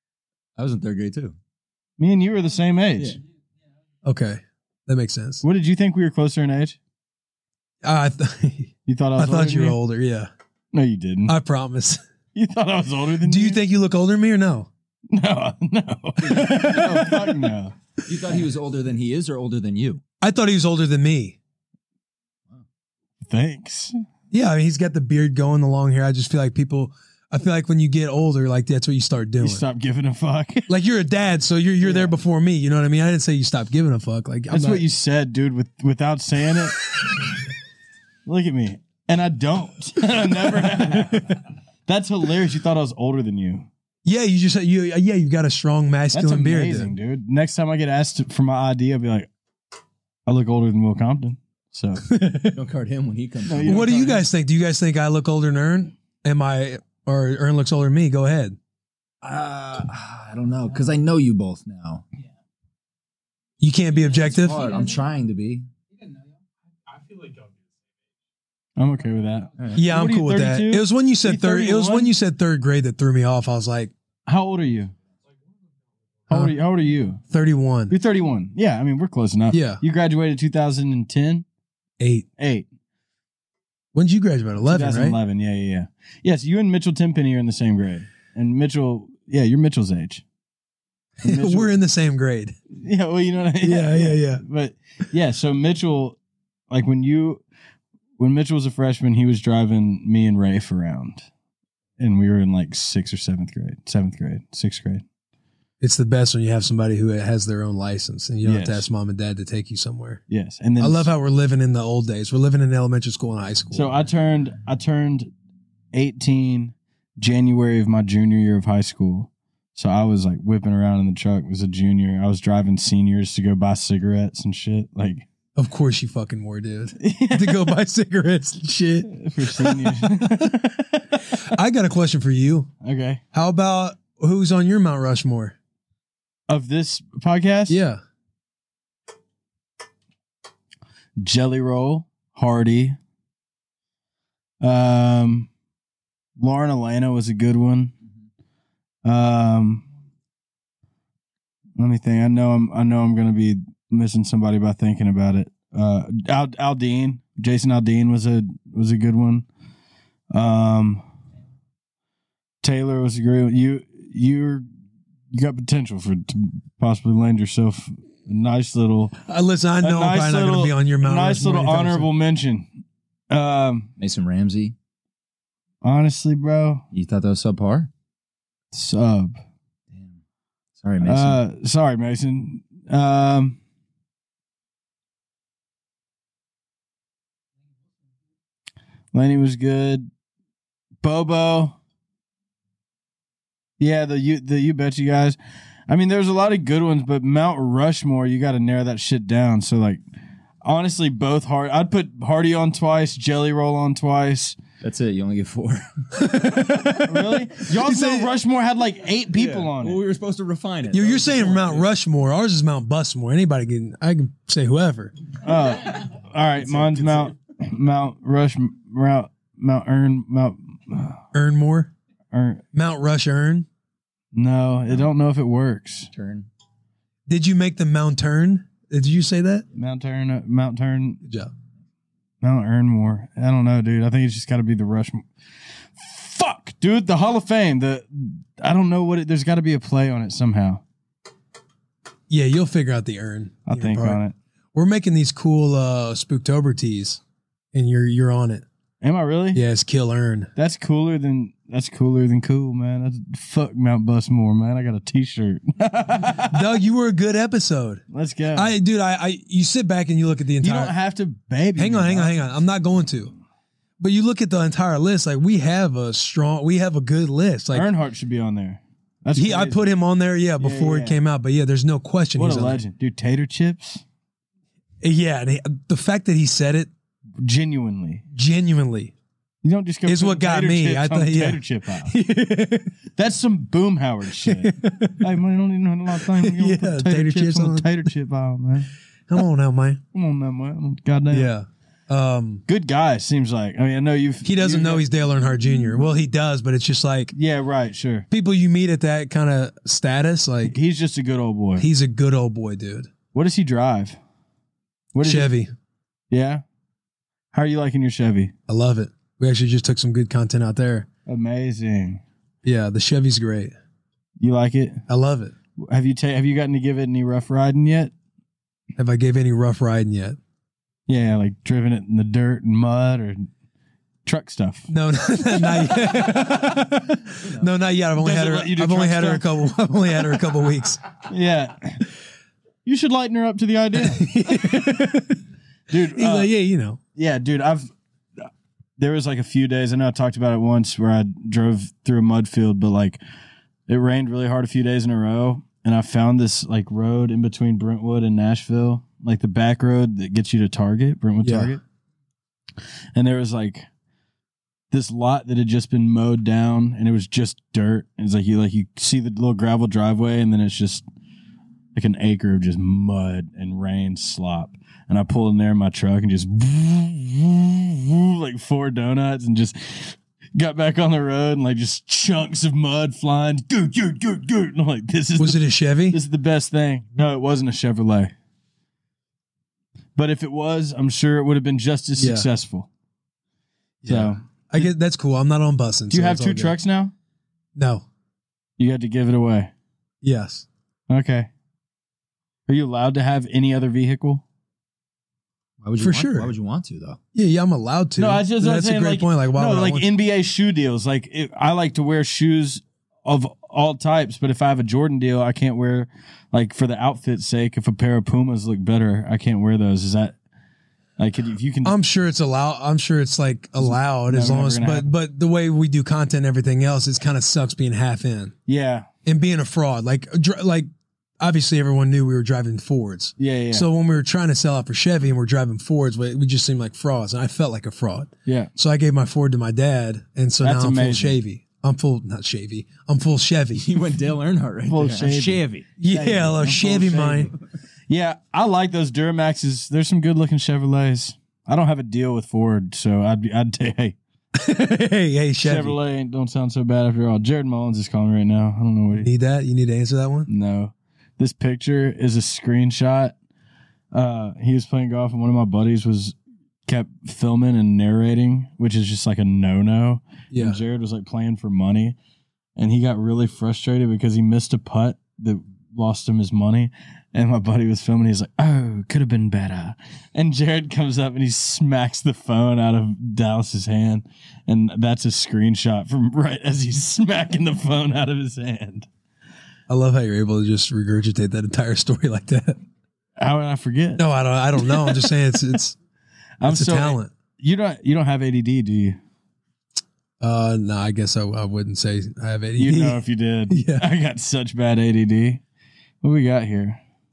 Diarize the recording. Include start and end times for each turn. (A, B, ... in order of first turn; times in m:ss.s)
0:00.6-0:01.4 A
0:02.0-0:03.2 B
0:04.0-0:05.4 C
0:05.4-0:06.8 B
0:07.8-0:10.3 C
0:08.9-0:09.8 B
0:10.7-0:11.4 B
0:11.3-0:12.0 C
0:12.3-0:13.6 B
0:13.2-0:14.7 C
0:15.1-0:17.7 B
0:16.3-0:16.8 A
0:16.3-0:17.3 C
0:18.0-0:20.0 A
0:20.2-0:21.4 C
0:23.3-0:24.0 B
0:24.3-0:29.6 C
0:29.4-0:30.7 B
0:30.7-0:34.8 C
0:31.8-0:32.1 B
0:34.5-0:36.8 B
0:38.3-0:43.7 B
0:40.7-0:41.3 C
0:44.0-0:46.9 C
0:46.1-0:49.3 B
0:50.3-0:52.1 B
0:52.1-0:52.6 C
0:52.5-0:53.9 A
0:53.4-0:54.2 B
0:53.6-0:58.6 C
0:59.2-1:02.0 A
1:03.6-1:04.7 C
1:04.4-1:05.7 A
1:08.8-1:12.1 B
1:09.8-1:13.9 C
1:14.3-1:14.9 B
1:16.3-1:17.2 B
1:17.3-1:17.9 C
1:17.9-1:21.4 B
1:19.5-1:19.8 C
1:22.0-1:22.3 C
1:22.4-1:22.7 B
1:23.9-1:25.2 C
1:24.7-1:30.2 B
1:31.2-1:31.8 B
1:31.2-1:32.6 C
1:32.7-1:36.2 B
1:33.6-1:34.4 C
1:36.7-1:37.4 B
1:38.2-1:41.3 B
1:42.0-1:45.0 B
1:45.8-1:50.2 C
1:48.4-1:48.9 B
1:50.3-1:51.1 B
1:50.8-1:53.9 C
1:53.7-1:55.3 B
1:55.9-2:05.3 B
2:05.6-2:10.5 C
2:07.0-2:07.7 B
2:09.0-2:11.2 B
2:11.3-2:12.7 C
2:12.8-2:13.2 B
2:13.3-2:15.6 C
2:16.5-2:17.8 B
2:17.7-2:18.0 C
2:21.2-2:23.0 B
2:24.6-2:25.5 B
2:26.4-2:27.9 B
2:29.0-2:29.8 B
2:31.8-2:39.5 B
2:40.3-2:41.0 B
2:42.6-2:44.6 B
2:45.3-2:49.2 B
2:49.3-2:52.1 C
2:49.8-2:52.7 B
2:53.3-2:53.9 B
2:54.0-2:54.8 A
2:55.8-2:56.8 B
2:56.9-2:57.9 A
2:58.7-2:59.4 B
2:59.9-3:00.2 A
3:00.8-3:01.4 A
3:01.0-3:03.6 B
3:09.1-3:10.1 B
3:11.0-3:11.8 B
3:13.8-3:15.4 B
3:15.9-3:20.0 B
3:20.6-3:24.6 B
3:24.8-3:26.9 A
3:26.2-3:28.3 C
3:26.9-3:30.0 B
3:29.3-3:31.9 A
3:30.9-3:35.1 C
3:35.4-3:41.2 B
3:36.7-3:37.3 A
3:41.3-3:41.9 C
3:42.3-3:42.6 B
3:42.7-3:43.7 C
3:44.3-3:46.1 B
3:46.1-3:46.5 A
3:47.3-3:49.6 C
3:49.8-3:51.2 B
3:51.2-3:51.5 C
3:52.4-3:55.3 B
3:56.0-4:00.8 B
4:02.3-4:04.2 C
4:03.7-4:04.4 B
4:04.7-4:07.2 C
4:07.7-4:08.6 C
4:09.0-4:09.6 B
4:09.5-4:10.5 C
4:10.6-4:16.6 B
4:16.4-4:18.0 C
4:18.1-4:18.7 B
4:18.5-4:21.0 C
4:20.6-4:22.4 B
4:21.8-4:23.3 C
4:24.0-4:27.9 C
4:27.7-4:29.9 B
4:29.4-4:32.8 C
4:30.6-4:31.2 B
4:32.4-4:34.0 B
4:35.0-4:36.9 C
4:37.4-4:38.2 B
4:38.3-4:39.1 C
4:39.6-4:42.2 B
4:40.1-4:42.9 C
4:43.2-4:48.9 B
4:44.4-4:45.3 C
4:46.1-4:48.0 C
4:49.3-4:50.0 C
4:50.1-4:51.5 B
4:51.3-4:52.6 C
4:52.7-4:55.1 B
4:54.4-4:57.3 C
4:57.3-4:58.3 B
4:58.3-5:00.8 C
5:00.6-5:01.9 B
5:01.8-5:03.1 C
5:03.3-5:04.2 B
5:05.1-5:05.5 B
5:05.2-5:05.7 C
5:06.3-5:06.6 B
5:07.5-5:08.5 B
5:08.7-5:11.1 C
5:11.3-5:12.2 B
5:12.6-5:13.7 C
5:14.4-5:15.0 B
5:15.1-5:15.5 C
5:15.8-5:18.1 B
5:19.0-5:20.4 C
5:21.1-5:23.5 B
5:24.2-5:24.9 B
5:24.9-5:31.0 C
5:27.4-5:27.7 A
5:28.2-5:29.5 B
5:31.3-5:32.1 B
5:32.8-5:34.9 B
5:33.9-5:35.4 C
5:35.9-5:36.5 B
5:36.1-5:37.0 C
5:37.2-5:37.9 B
5:39.0-5:43.2 B
5:43.9-5:51.8 B
5:51.4-5:51.8 C
5:53.2-5:53.9 B
5:54.9-6:01.0 B
6:01.9-6:18.3 B
6:15.4-6:16.2 C
6:20.2-6:22.9 B
6:22.2-6:22.5 C
6:24.0-6:26.8 C
6:24.0-6:24.9 B
6:26.1-6:27.1 B
6:27.8-6:28.0 C
6:28.8-6:29.7 B
6:30.2-6:30.7 C
6:31.1-6:31.5 B
6:32.7-6:34.4 B
6:35.8-6:37.2 A
6:36.0-6:36.5 C
6:37.4-6:40.1 C
6:38.2-6:50.4 B
6:51.2-6:52.0 B
6:51.8-6:58.5 C
6:53.8-6:55.1 B
6:58.7-6:59.1 B
6:59.3-7:00.9 C
7:01.4-7:13.8 C
7:03.4-7:03.9 B
7:08.5-7:08.7 B
7:10.6-7:11.4 B
7:13.8-7:15.9 A
7:14.9-7:17.5 B
7:16.0-7:17.5 C
7:18.1-7:24.2 B
7:24.6-7:26.0 C
7:25.6-7:29.3 B
7:29.2-7:30.5 C
7:30.5-7:33.4 B
7:34.1-7:36.4 B
7:36.9-7:42.2 B
7:40.5-7:40.8 C
7:42.8-7:59.1 B
7:59.9-8:02.8 C
8:03.4-8:04.2 B
8:04.2-8:06.0 C
8:04.9-8:05.2 B
8:06.6-8:09.2 B
8:06.6-8:07.3 C
8:10.4-8:14.1 C
8:12.8-8:15.6 B
8:16.2-8:17.0 B